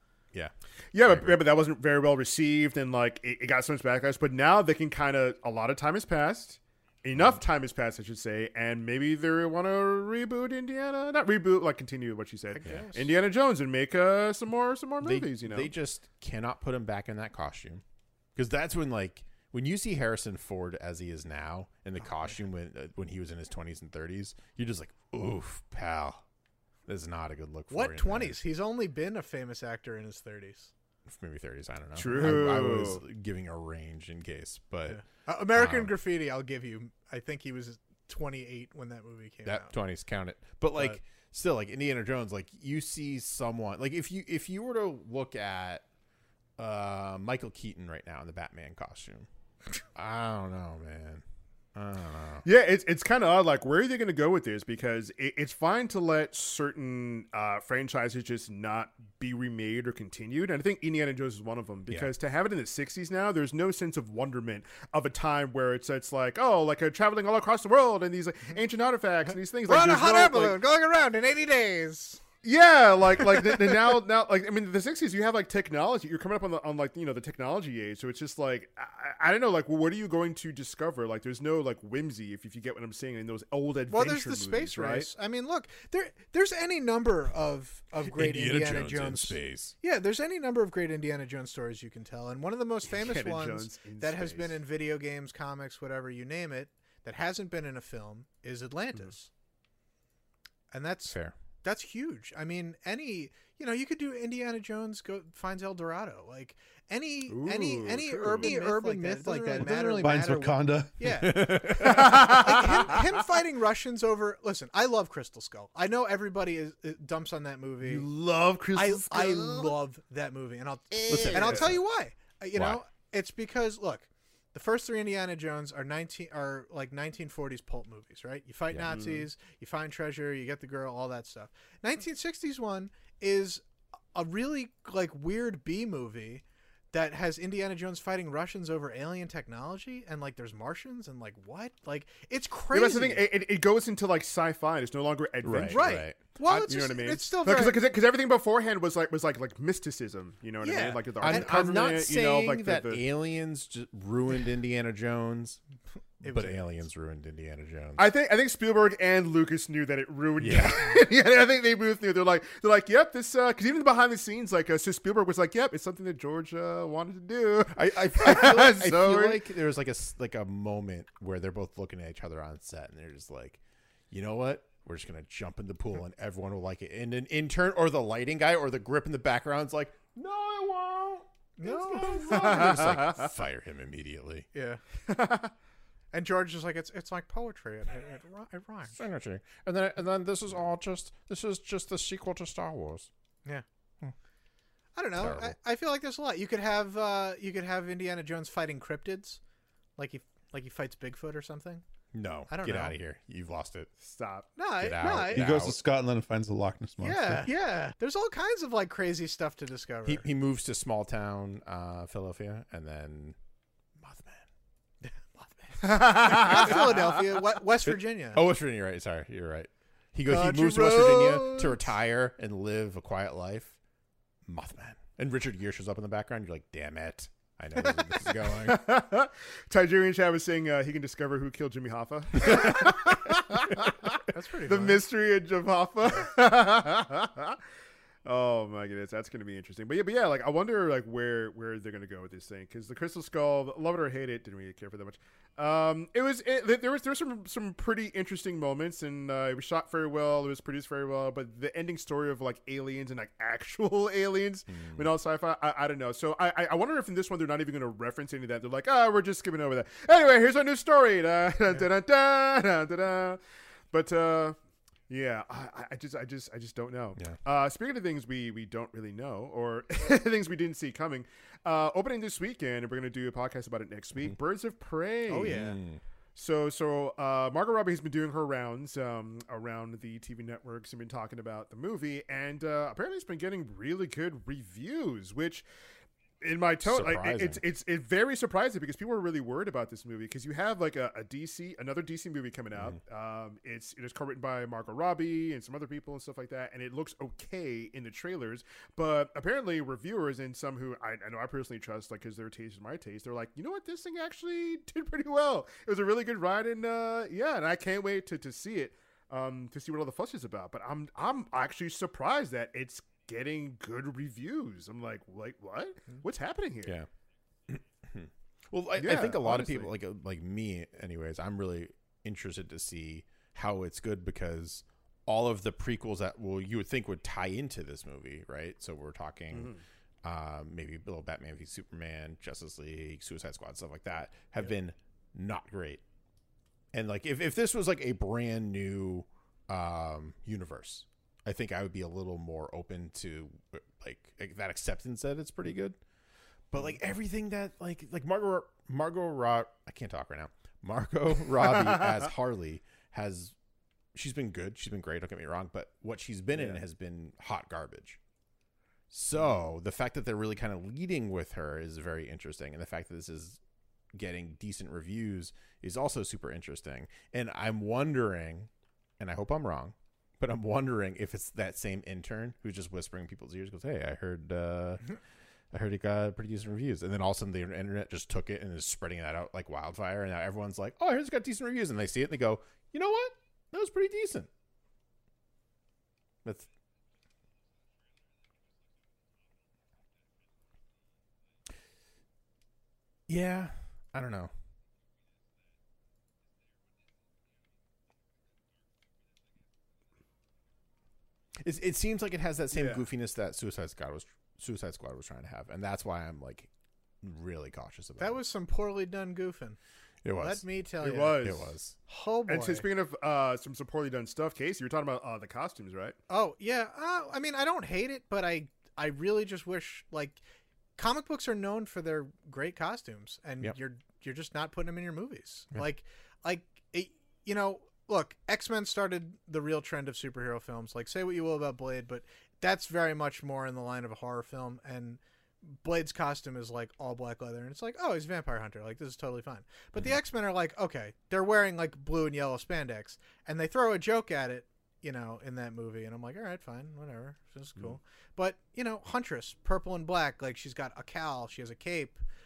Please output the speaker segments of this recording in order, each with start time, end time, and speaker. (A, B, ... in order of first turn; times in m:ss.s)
0:00.3-0:01.4 A
0:00.9-0:15.7 B
0:07.1-0:07.4 A
0:12.5-0:13.1 C
0:15.0-0:17.8 A
0:18.4-0:26.2 A
0:26.9-0:28.4 A
0:27.7-0:30.7 C
0:31.1-0:35.0 A
0:32.0-0:33.0 B
0:34.9-0:39.7 C
0:35.5-0:35.9 A
0:39.4-0:45.8 A
0:46.6-0:49.3 A
0:49.9-0:51.2 A
0:51.7-0:52.4 A
0:52.4-1:10.6 B
1:09.7-1:12.2 C
1:12.4-1:25.1 B
1:23.9-1:39.3 C
1:28.1-1:29.7 A
1:32.9-1:34.6 B
1:40.7-1:58.0 C
1:41.1-1:41.3 A
1:47.3-1:48.6 B
1:49.2-1:51.1 D
1:51.0-1:52.5 A
1:51.8-1:53.1 B
1:57.8-1:59.7 B
1:58.7-2:13.6 C
2:01.1-2:01.7 B
2:01.1-2:01.8 A
2:02.5-2:02.8 A
2:08.9-2:09.3 B
2:14.1-2:23.2 C
2:22.7-2:33.0 B
2:25.4-2:26.2 A
2:25.6-2:27.8 C
2:30.6-2:31.7 C
2:31.2-2:35.6 A
2:36.2-2:36.7 C
2:36.2-2:38.1 A
2:38.0-2:49.4 B
2:40.4-2:41.0 A
2:47.7-2:53.6 A
2:54.1-3:04.5 A
3:01.6-3:02.7 C
3:02.4-3:03.3 B
3:04.5-3:04.8 C
3:05.1-3:05.5 B
3:06.1-3:08.9 C
3:08.9-3:13.1 A
3:14.9-3:19.4 C
3:15.2-3:15.5 A
3:20.0-3:21.8 C
3:22.1-3:23.9 A
3:22.5-3:23.0 C
3:24.0-3:24.5 B
3:24.6-3:25.6 C
3:24.8-3:25.8 A
3:25.3-3:27.5 D
3:27.0-3:30.2 C
3:30.0-3:33.4 A
3:34.0-3:34.4 A
3:35.0-3:38.4 C
3:35.8-3:36.9 B
3:36.4-3:36.9 A
3:37.8-3:43.8 A
3:40.2-3:41.9 C
3:44.5-3:48.8 A
3:48.5-3:57.6 B
3:52.4-3:52.7 A
3:54.3-3:55.0 C
3:58.2-4:23.4 B
4:14.7-4:15.1 A
4:23.9-4:24.6 B
4:25.1-4:35.6 B
4:35.3-4:35.8 C
4:35.4-4:36.0 A
4:36.4-4:45.6 B
4:46.4-5:17.0 B
4:46.8-4:47.6 A
5:17.7-5:29.7 A
5:19.0-5:19.9 B
5:29.5-5:29.8 B
5:30.2-5:36.0 A
5:36.9-5:46.0 A
5:46.7-5:53.5 A
5:54.1-5:58.2 A
5:56.5-5:56.8 B
5:59.1-6:03.6 A
6:04.1-6:15.2 A
6:15.7-6:24.5 A
6:33.3-6:34.5 A
6:41.6-6:46.7 A
6:42.7-6:43.0 B
6:47.2-6:48.4 A
6:48.2-6:49.8 C
6:50.2-6:50.6 A
6:50.4-6:51.5 C
6:51.0-6:51.7 B
6:51.4-6:52.0 A
6:52.1-6:52.8 C
6:52.5-6:56.2 B
6:56.3-7:00.4 C
7:01.0-7:32.2 C